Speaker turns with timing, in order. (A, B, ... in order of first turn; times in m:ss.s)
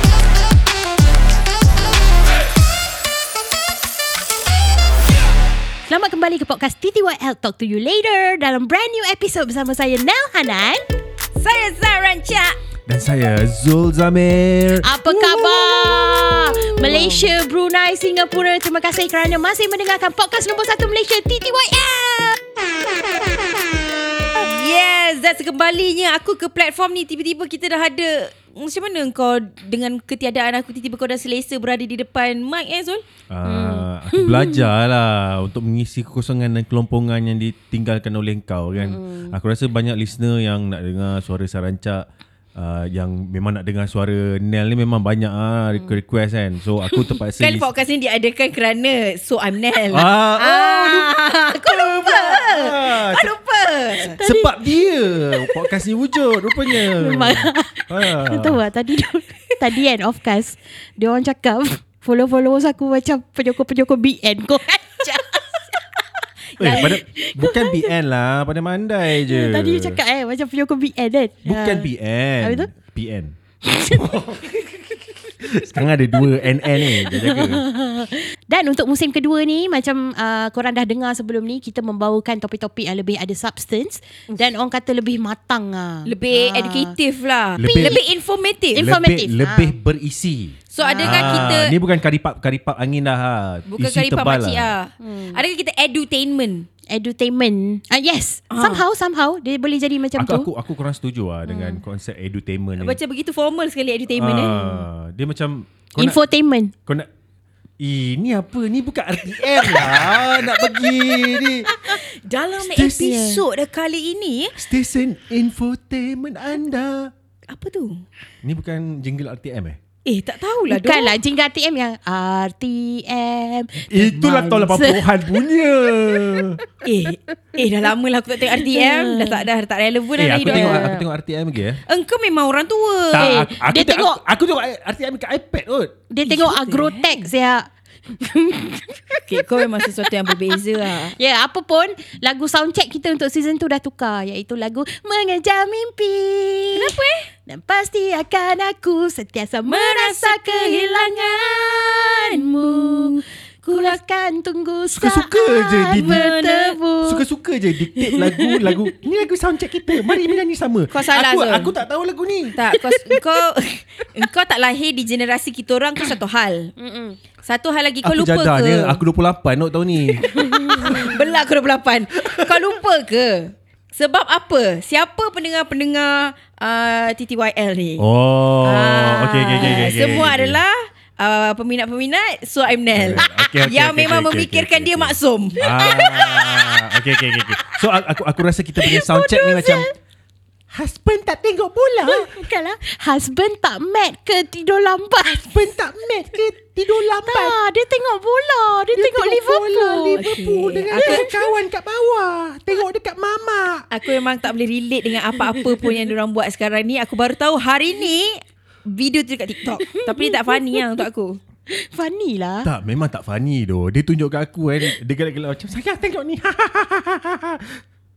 0:05.9-0:10.8 A
0:11.4-0:12.6 B
0:12.9-0:15.6 C
0:14.8-0:22.4 A
0:24.3-0:33.0 B
0:33.3-0:47.7 C
0:33.4-0:34.6 A
0:38.8-0:39.3 A
0:47.4-0:54.2 B
0:49.9-0:53.3 C
0:54.0-0:54.5 A
0:54.2-0:58.6 C
0:57.0-1:05.4 A
1:06.6-1:10.0 C
1:06.7-1:07.9 A
1:09.2-1:11.9 A
1:11.4-1:14.7 C
1:12.4-1:12.7 A
1:13.7-1:14.1 A
1:15.4-1:17.6 C
1:16.7-1:26.9 A
1:26.0-1:28.8 B
1:27.6-1:28.0 C
1:27.6-1:28.0 A
1:28.7-1:29.7 A
1:28.7-1:34.7 C
1:30.7-1:31.7 B
1:30.8-1:31.5 A
1:33.7-1:36.7 B
1:35.0-1:35.4 A
1:36.9-1:40.5 A
1:38.5-1:38.8 B
1:40.2-1:43.0 C
1:41.5-1:41.8 A
1:42.8-1:44.8 B
1:44.2-1:46.2 C
1:46.0-1:46.7 A
1:47.8-1:51.7 C
1:49.7-1:50.1 B
1:50.8-1:54.6 B
1:52.6-1:53.1 C
1:52.8-1:53.4 A
1:54.6-1:57.1 C
1:57.5-1:58.0 B
1:58.4-1:59.8 C
2:00.0-2:01.2 B
2:00.7-2:03.9 A
2:03.9-2:06.6 C
2:04.1-2:04.9 B
2:04.7-2:05.0 A
2:06.8-2:11.0 B
2:08.6-2:09.4 A
2:10.2-2:11.8 C
2:10.5-2:11.0 A
2:11.9-2:13.4 B
2:13.1-2:16.0 C
2:13.2-2:14.2 A
2:16.1-2:20.6 A
2:16.2-2:17.3 B
2:19.3-2:21.1 B
2:21.1-2:27.0 A
2:26.8-2:27.2 B
2:27.5-2:37.2 A
2:29.7-2:34.0 B
2:34.9-2:36.3 C
2:35.9-2:36.8 B
2:37.0-2:42.6 C
2:37.9-2:38.8 A
2:40.9-2:41.7 B
2:42.6-2:46.7 B
2:46.8-2:47.2 A
2:47.4-2:49.0 B
2:48.0-2:51.1 C
2:50.3-2:51.1 A
2:50.8-2:58.0 B
2:52.2-2:52.6 C
2:58.0-3:00.6 C
2:58.6-3:06.2 B
2:59.6-2:59.9 A
3:02.9-3:09.9 C
3:05.8-3:06.8 A
3:07.3-3:07.8 A
3:08.8-3:09.9 A
3:10.7-3:12.4 C
3:12.0-3:15.5 A
3:15.2-3:17.6 C
3:17.2-3:20.2 A
3:18.9-3:23.8 C
3:20.2-3:21.3 B
3:20.9-3:21.4 A
3:23.9-3:31.4 B
3:25.5-3:25.8 A
3:29.8-3:31.0 A
3:31.7-3:32.7 A
3:32.6-3:37.8 C